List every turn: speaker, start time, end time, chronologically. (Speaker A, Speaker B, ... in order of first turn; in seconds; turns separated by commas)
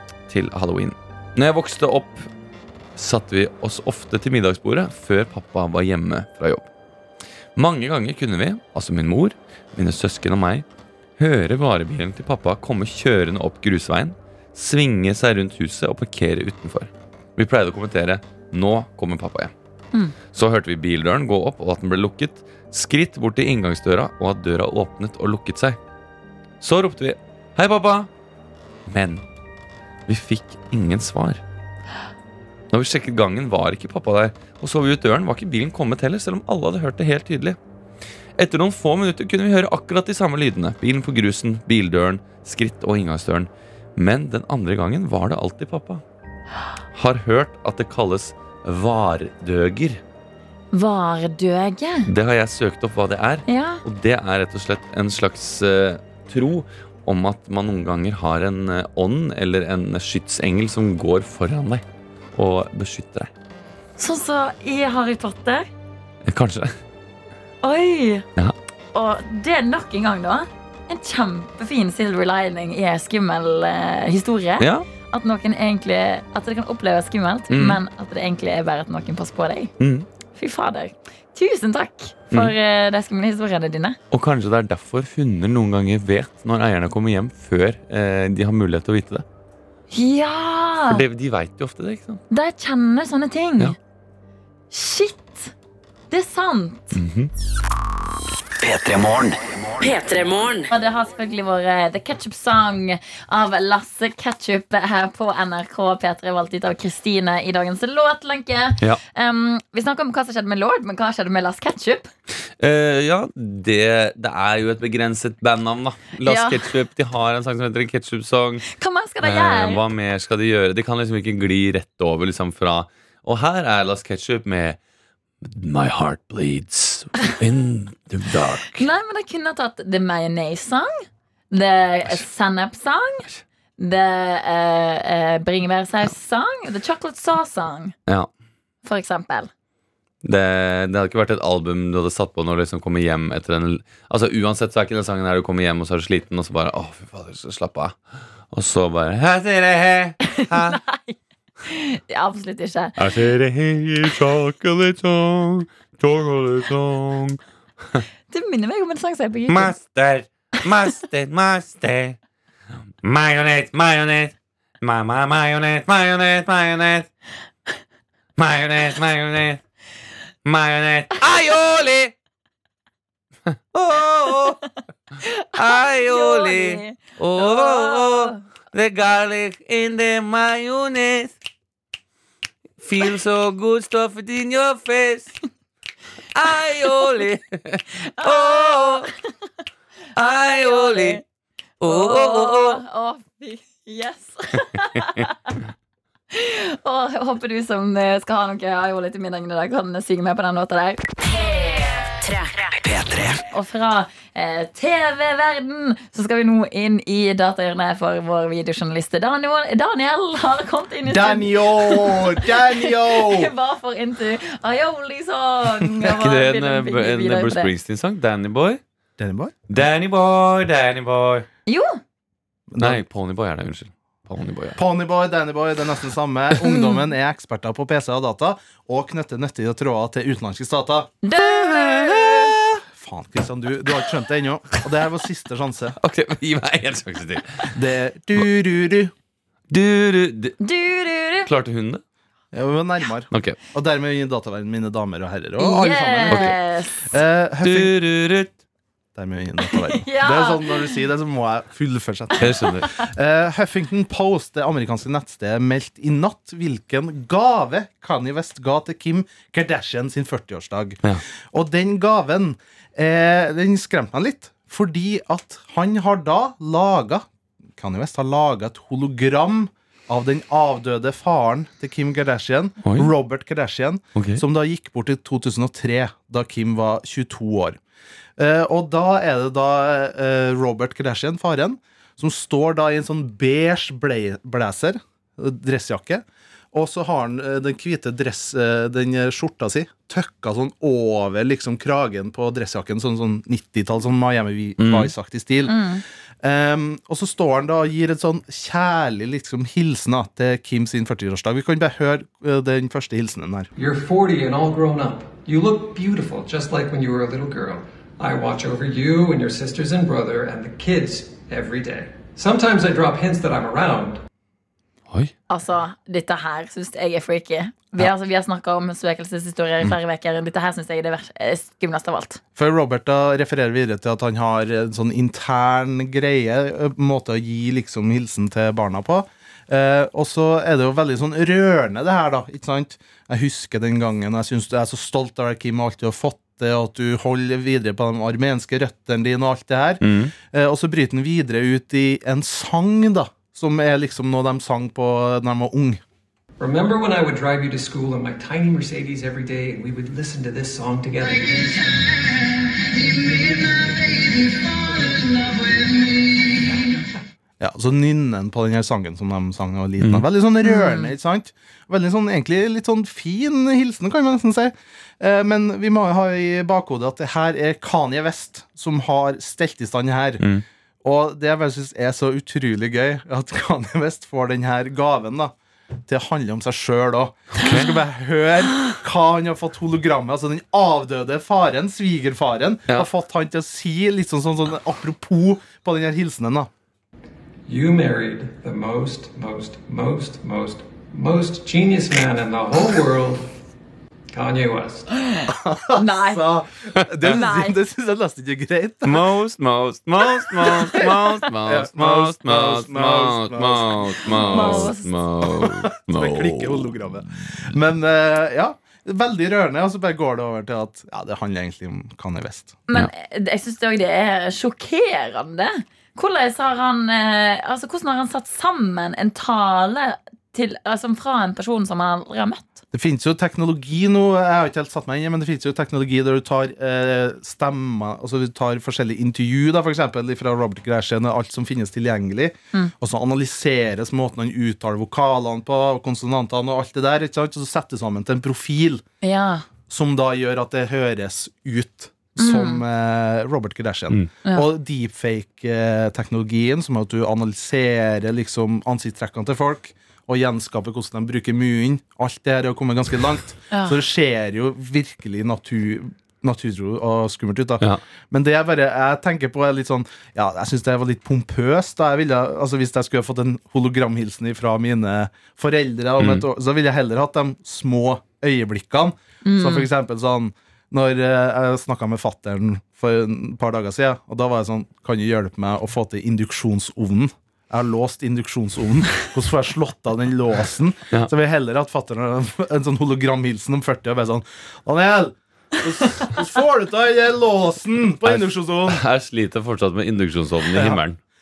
Speaker A: 0.3-2.3, Speaker A: 3.0-6.7, Speaker A: 7.6-10.7, Speaker A: 11.2-19.5, Speaker A: 20.3-25.8, Speaker A: 26.6-28.1, Speaker A: 28.9-29.2, Speaker A: 30.1-31.4, Speaker A: 32.7-37.6, Speaker A: 38.4-46.0, Speaker A: 46.9-50.0, Speaker B: 50.7-52.1, Speaker A: 52.1-61.8, Speaker B: 53.5-53.8, Speaker A: 62.4-63.3, Speaker B: 64.0-65.7, Speaker A: 66.2-66.8, Speaker B: 67.6-68.3, Speaker B: 68.9-79.7, Speaker A: 74.6-74.9, Speaker A: 77.5-77.8, Speaker A: 79.8-80.1, Speaker B: 80.3-84.0, Speaker A: 84.1-89.2, Speaker B: 89.9-91.0, Speaker A: 90.9-92.2, Speaker B: 92.3-93.8, Speaker B: 94.7-95.5, Speaker B: 96.1-97.0, Speaker A: 96.9-97.3, Speaker C: 98.6-100.0, Speaker D: 99.8-100.7, Speaker B: 100.7-112.1, Speaker A: 112.6-118.7, Speaker B: 116.2-116.7, Speaker B: 118.7-119.8, Speaker A: 119.2-124.8, Speaker A: 125.4-128.9, Speaker B: 128.7-133.3, Speaker B: 133.8-137.9, Speaker B: 138.8-139.5, Speaker A: 140.2-148.0, Speaker A: 148.5-150.8, Speaker B: 150.3-153.2, Speaker A: 153.0-157.4, Speaker B: 158.3-159.8, Speaker A: 159.5-162.2, Speaker A: 163.0-167.1, Speaker A: 168.4-169.6, Speaker A: 170.4-172.1, Speaker A: 173.5-174.6, Speaker B: 175.2-178.4, Speaker A: 175.6-181.3, Speaker A: 182.8-185.3, Speaker A: 186.3-189.1, Speaker B: 188.0-189.1, Speaker A: 190.2-191.2, Speaker B: 190.2-191.2, Speaker A: 191.8-192.8, Speaker B: 191.8-195.6, Speaker A: 194.9-195.3, Speaker B: 196.3-201.0, Speaker D: 201.2-202.7, Speaker C: 202.8-203.4, Speaker B: 203.5-217.7, Speaker E: 211.1-213.5, Speaker A: 216.0-218.8, Speaker E: 219.2-219.6, Speaker A: 219.7-221.5, Speaker B: 221.7-222.0, Speaker E: 222.7-223.0, Speaker A: 222.8-224.8, Speaker E: 224.8-231.2, Speaker B: 231.2-232.5, Speaker A: 231.4-232.8, Speaker E: 232.9-236.0, Speaker A: 236.0-237.7, Speaker E: 237.7-239.1, Speaker A: 239.7-240.6, Speaker B: 240.6-241.5, Speaker A: 241.5-242.0, Speaker E: 242.5-247.9, Speaker A: 243.3-243.6, Speaker B: 245.6-247.2, Speaker A: 246.3-246.6, Speaker A: 247.6-248.5, Speaker E: 249.2-261.0, Speaker B: 249.7-250.9, Speaker A: 252.4-252.9, Speaker B: 252.4-253.0, Speaker E: 261.5-267.2, Speaker E: 267.8-277.8, Speaker A: 272.8-273.1, Speaker A: 274.1-274.4, Speaker E: 278.4-295.8, Speaker A: 294.8-295.1, Speaker B: 295.7-296.0, Speaker E: 296.4-303.7, Speaker F: 303.8-314.2, Speaker B: 315.5-322.4, Speaker E: 322.6-346.0, Speaker A: 340.0-340.3, Speaker F: 346.6-352.2, Speaker F: 353.0-353.8, Speaker F: 354.7-355.8, Speaker F: 356.7-356.9, Speaker E: 357.6-370.5, Speaker A: 360.0-360.2, Speaker B: 360.6-361.1, Speaker A: 370.4-370.6, Speaker E: 371.0-375.5, Speaker E: 376.1-386.7, Speaker A: 377.6-377.9, Speaker F: 387.7-393.5, Speaker F: 394.3-395.1, Speaker B: 395.3-396.6, Speaker E: 395.5-399.3, Speaker A: 397.0-397.4, Speaker B: 397.2-397.8, Speaker A: 399.1-407.0, Speaker E: 400.6-404.9, Speaker B: 404.3-405.2, Speaker E: 405.4-412.8, Speaker B: 412.9-422.8, Speaker E: 422.9-439.0, Speaker B: 439.2-439.6, Speaker E: 439.9-489.0, Speaker B: 442.4-442.8, Speaker B: 453.7-454.0, Speaker A: 466.2-466.5, Speaker B: 469.4-469.9, Speaker A: 488.2-491.2, Speaker E: 490.7-491.0